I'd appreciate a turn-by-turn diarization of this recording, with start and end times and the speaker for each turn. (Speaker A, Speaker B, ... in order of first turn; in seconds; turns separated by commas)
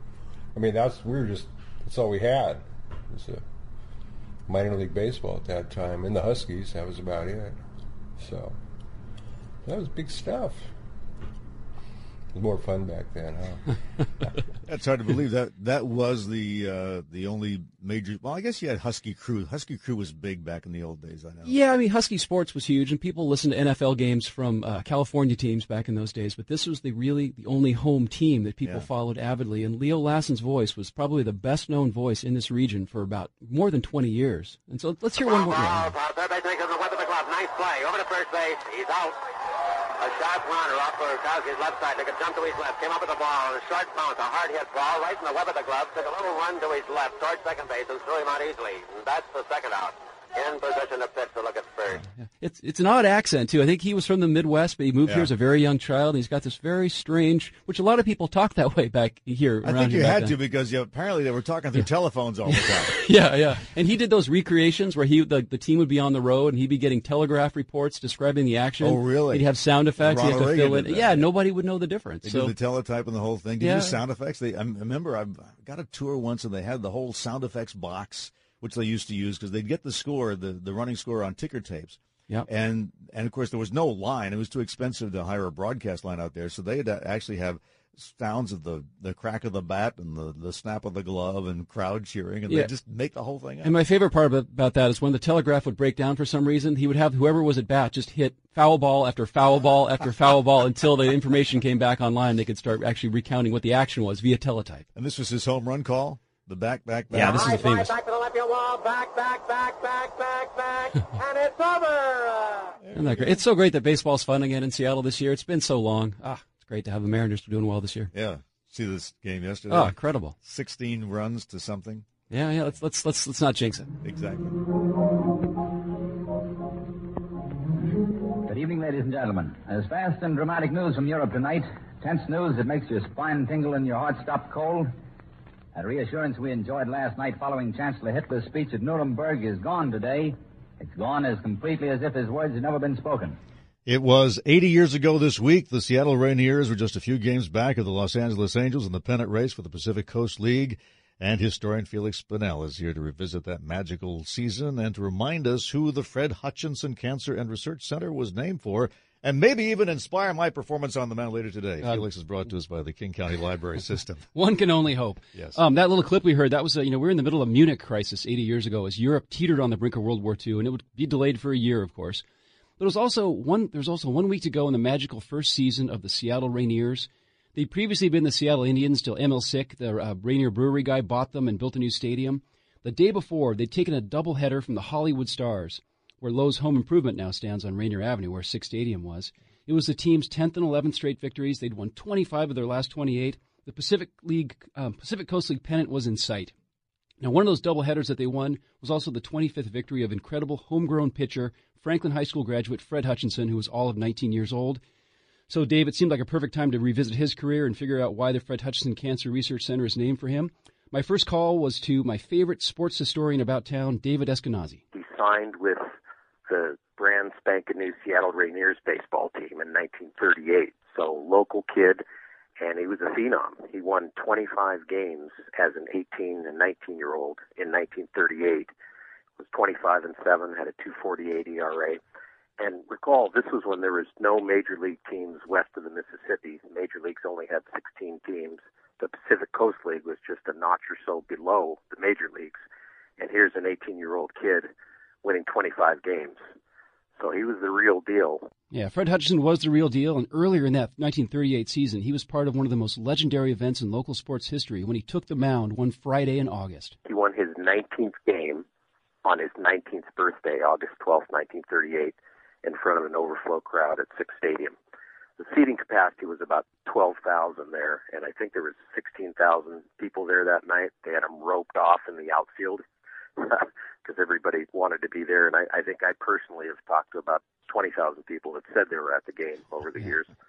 Speaker A: 0.6-3.4, Speaker A: 4.5-7.6, Speaker A: 8.2-8.6, Speaker A: 9.6-10.7, Speaker A: 12.3-14.3, Speaker B: 14.7-21.5, Speaker C: 21.4-35.9, Speaker D: 35.2-39.2, Speaker D: 40.0-52.0, Speaker C: 52.4-60.4, Speaker B: 59.6-63.0, Speaker C: 62.5-72.5, Speaker B: 68.8-71.3, Speaker B: 72.2-93.8, Speaker C: 73.6-74.0, Speaker C: 93.6-104.9, Speaker B: 105.0-107.5, Speaker C: 107.1-107.9, Speaker D: 107.2-112.8, Speaker B: 112.8-113.4, Speaker C: 113.0-118.1, Speaker B: 118.1-122.1, Speaker C: 119.7-120.4, Speaker C: 122.3-123.9, Speaker B: 124.0-124.6, Speaker E: 128.5-134.9, Speaker E: 135.7-143.4, Speaker B: 143.9-164.3, Speaker C: 164.3-172.2, Speaker B: 165.3-165.6, Speaker C: 172.8-196.5, Speaker C: 197.2-204.8, Speaker C: 205.5-214.8, Speaker F: 214.9-215.8, Speaker F: 216.5-222.0, Speaker F: 222.6-228.7, Speaker F: 229.4-232.0, Speaker F: 232.6-242.6, Speaker F: 243.2-244.7, Speaker F: 245.2-246.4, Speaker F: 247.2-248.5, Speaker C: 248.7-257.0, Speaker F: 257.1-258.6, Speaker F: 259.2-264.8, Speaker F: 265.4-272.8, Speaker F: 273.4-280.3